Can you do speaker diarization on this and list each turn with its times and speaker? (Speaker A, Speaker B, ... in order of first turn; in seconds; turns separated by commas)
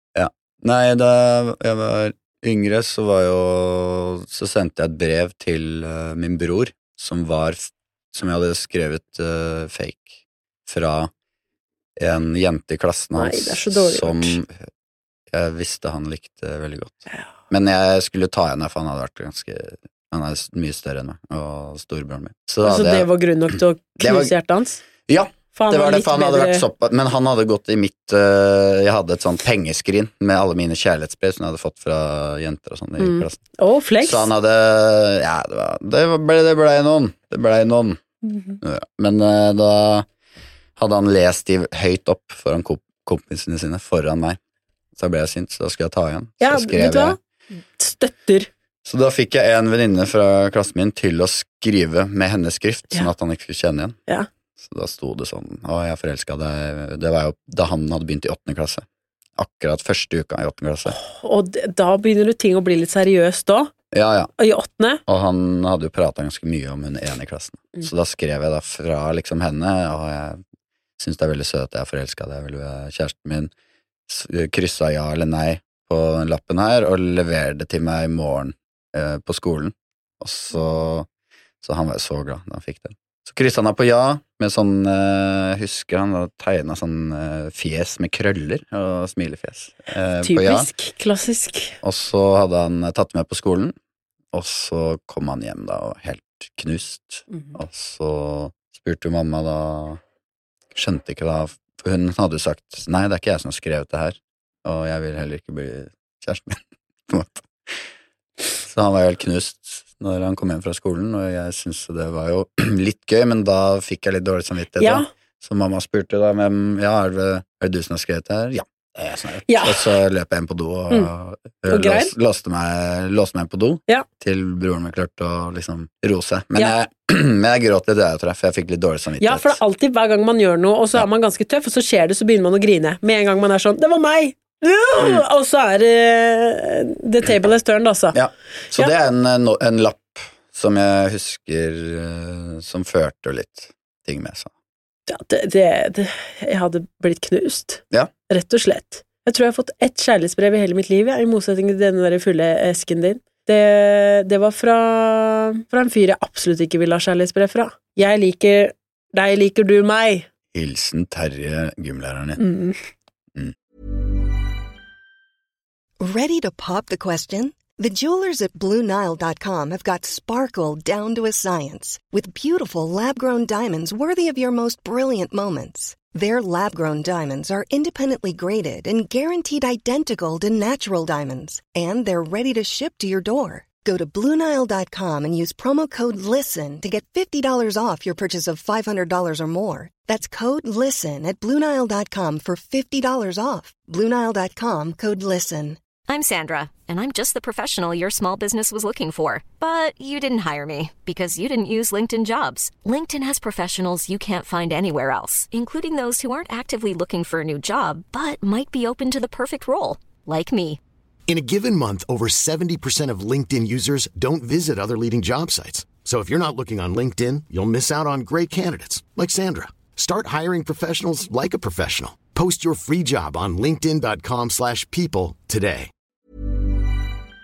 Speaker A: 0.1-11.1, Speaker A: 12.0-14.7, Speaker B: 13.2-14.4, Speaker A: 15.3-23.1, Speaker B: 22.6-24.8, Speaker A: 24.0-24.3, Speaker A: 25.1-33.4, Speaker B: 25.5-26.6, Speaker B: 33.0-34.3, Speaker A: 34.0-38.0, Speaker B: 38.3-38.6, Speaker A: 38.6-40.1, Speaker A: 40.8-44.4, Speaker A: 45.0-47.2, Speaker B: 46.4-47.2, Speaker B: 47.8-48.5, Speaker A: 48.9-54.0, Speaker A: 54.6-58.9, Speaker A: 59.4-61.0, Speaker B: 60.9-63.7, Speaker A: 63.9-64.3, Speaker B: 64.4-65.0, Speaker A: 65.1-70.4, Speaker A: 71.0-73.5, Speaker A: 74.1-81.1, Speaker A: 81.6-90.7, Speaker B: 90.2-91.8, Speaker A: 91.8-93.8, Speaker A: 94.3-100.0, Speaker A: 100.7-107.8, Speaker A: 108.6-129.6, Speaker B: 114.8-115.1, Speaker B: 119.5-119.9, Speaker B: 121.7-122.1, Speaker B: 129.2-138.2, Speaker A: 138.1-144.5, Speaker B: 145.1-160.3, Speaker A: 160.5-162.4, Speaker B: 162.4-162.8, Speaker C: 166.0-195.8, Speaker D: 196.1-210.8, Speaker E: 211.3-225.9